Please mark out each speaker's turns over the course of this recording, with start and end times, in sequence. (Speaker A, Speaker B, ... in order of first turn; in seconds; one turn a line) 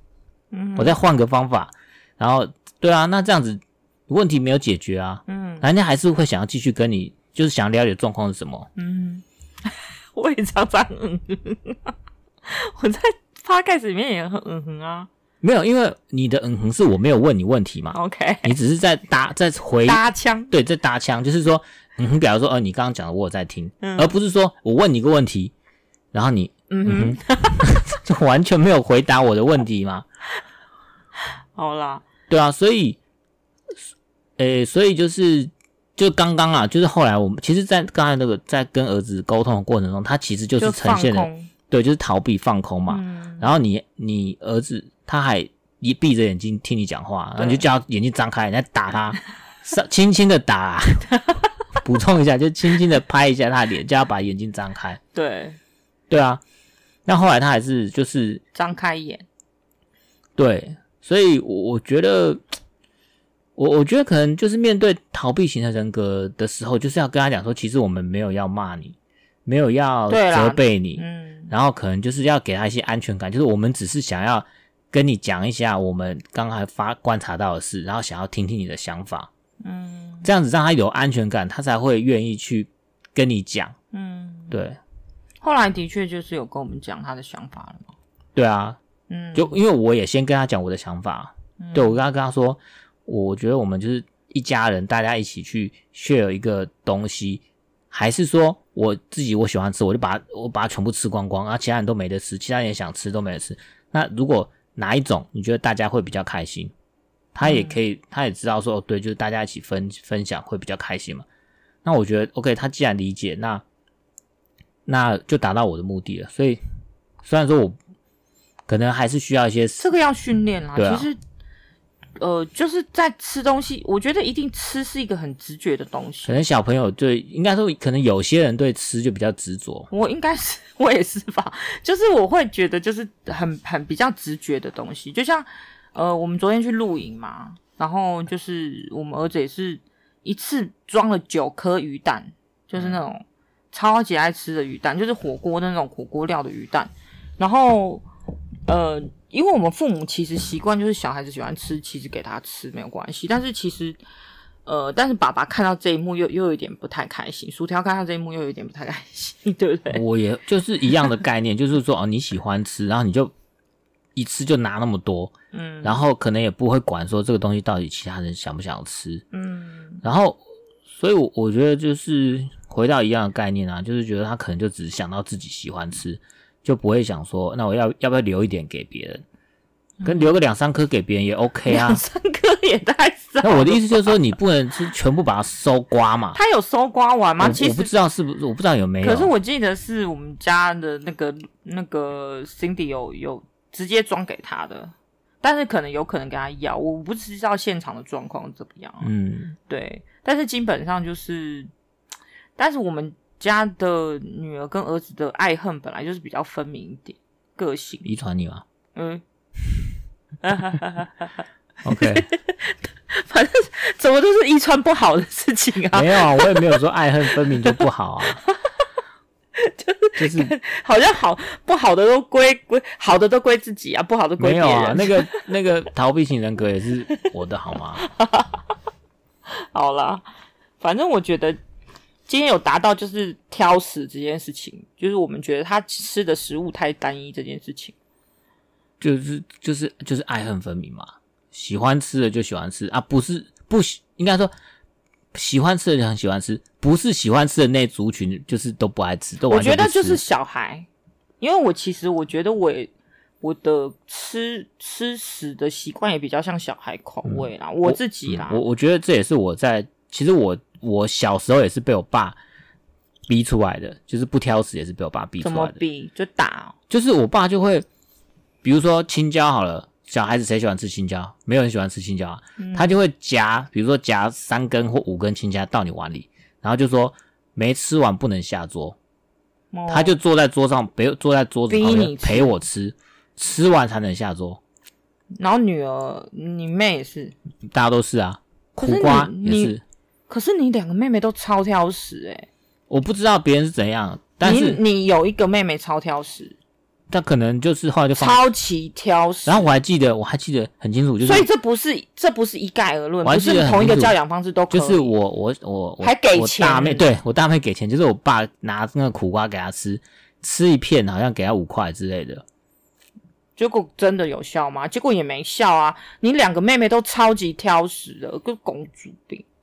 Speaker A: 0.5-1.0
Speaker B: 0.8-8.7
Speaker A: 5.3-5.6
Speaker A: 8.8-11.9
Speaker A: 12.5-15.1
Speaker B: 15.4-25.5
Speaker A: 17.9-18.5
Speaker A: 19.9-20.5
Speaker A: 23.8-24.1
Speaker B: 26.1-30.0
Speaker A: 26.7-27.8
Speaker A: 31.6-32.0
Speaker B: 32.3-33.0
Speaker B: 34.4-51.0
Speaker A: 40.6-41.5
Speaker A: 42.9-43.5
Speaker A: 47.4-47.6
Speaker B: 51.8-55.0
Speaker A: 55.1-55.6
Speaker B: 56.1-56.4
Speaker B: 57.0-58.4
Speaker A: 58.5-59.2
Speaker B: 60.4-62.4
Speaker B: 63.5-79.3
Speaker A: 70.1-71.5
Speaker A: 79.6-80.3
Speaker B: 80.2-83.8
Speaker A: 83.9-84.5
Speaker B: 84.5-84.8
Speaker A: 85.4-87.9
Speaker B: 88.3-88.8
Speaker A: 89.1-89.5
Speaker B: 89.3-106.7
Speaker A: 91.6-92.0
Speaker B: 107.3-111.2
Speaker A: 107.4-107.8
Speaker B: 111.8-113.6
Speaker B: 114.8-116.6
Speaker B: 117.2-117.8
Speaker B: 118.7-119.9
Speaker A: 119.8-121.2
Speaker B: 120.8-121.1
Speaker A: 122.2-126.3
Speaker B: 126.2-129.9
Speaker A: 129.9-148.1
Speaker A: 148.7-154.0
Speaker A: 154.7-160.0
Speaker B: 159.9-163.3
Speaker B: 164.2-169.2
Speaker A: 165.5-166.0
Speaker A: 169.3-170.0
Speaker B: 170.0-179.2
Speaker A: 180.0-180.3
Speaker B: 180.0-182.0
Speaker A: 181.7-184.2
Speaker B: 183.4-186.4
Speaker A: 186.3-187.9
Speaker B: 187.4-189.3
Speaker A: 189.0-199.1
Speaker B: 199.0-199.5
Speaker A: 199.7-201.7
Speaker A: 202.6-208.1
Speaker B: 208.0-208.6
Speaker A: 208.9-209.2
Speaker A: 210.4-211.3
Speaker B: 211.8-212.2
Speaker A: 211.9-216.8
Speaker B: 215.9-218.4
Speaker A: 219.6-225.4
Speaker B: 220.2-220.5
Speaker B: 224.4-228.0
Speaker A: 228.0-228.6
Speaker A: 229.7-230.2
Speaker A: 230.8-231.6
Speaker A: 232.3-237.9
Speaker B: 239.0-244.5
Speaker B: 245.3-250.2
Speaker A: 249.5-250.9
Speaker A: 251.4-258.6
Speaker B: 257.2-262.4
Speaker B: 263.3-265.8
Speaker A: 265.4-266.7
Speaker B: 266.9-267.9
Speaker B: 268.6-279.0
Speaker A: 272.6-272.9
Speaker A: 279.7-280.2
Speaker B: 279.9-284.6
Speaker A: 281.7-282.5
Speaker A: 285.4-287.3
Speaker B: 287.6-289.8
Speaker A: 288.8-289.8
Speaker A: 290.3-292.5
Speaker B: 292.9-294.8
Speaker A: 294.4-296.6
Speaker B: 297.1-298.4
Speaker A: 298.2-299.7
Speaker B: 299.4-301.5
Speaker A: 301.2-305.1
Speaker B: 303.2-304.1
Speaker B: 304.7-312.4
Speaker A: 306.0-307.1
Speaker A: 313.6-319.4